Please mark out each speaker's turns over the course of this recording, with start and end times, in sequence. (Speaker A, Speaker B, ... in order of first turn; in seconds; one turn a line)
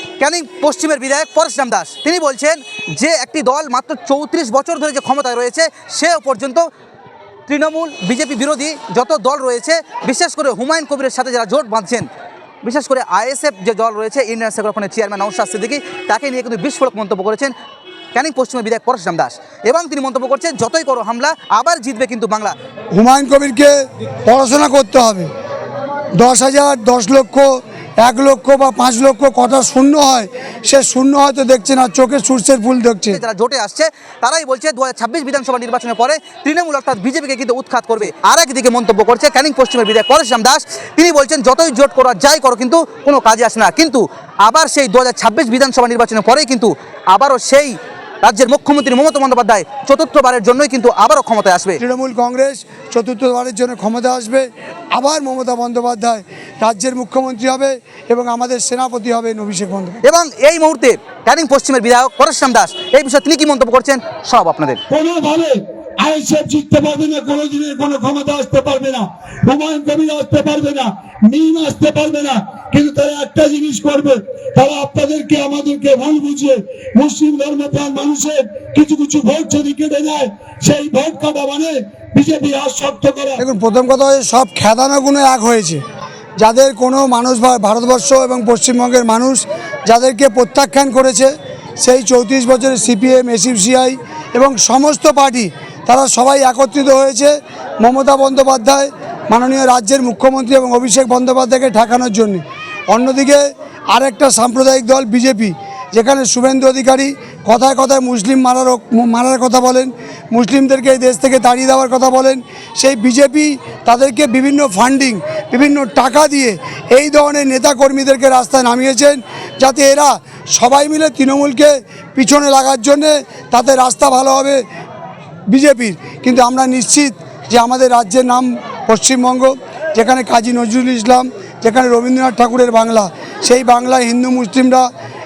Speaker A: 0.2-6.7
Speaker A: 7.5-12.1
Speaker A: 12.6-17.5
Speaker A: 18.1-22.5
Speaker B: 22.9-23.7
Speaker B: 24.3-25.3
Speaker B: 26.2-27.5
Speaker B: 28.0-33.2
Speaker A: 33.1-51.8
Speaker B: 51.8-60.0
Speaker A: 60.0-64.8
Speaker C: 64.9-83.4
Speaker B: 83.4-85.8
Speaker B: 86.4-124.6
Speaker B: 125.5-134.9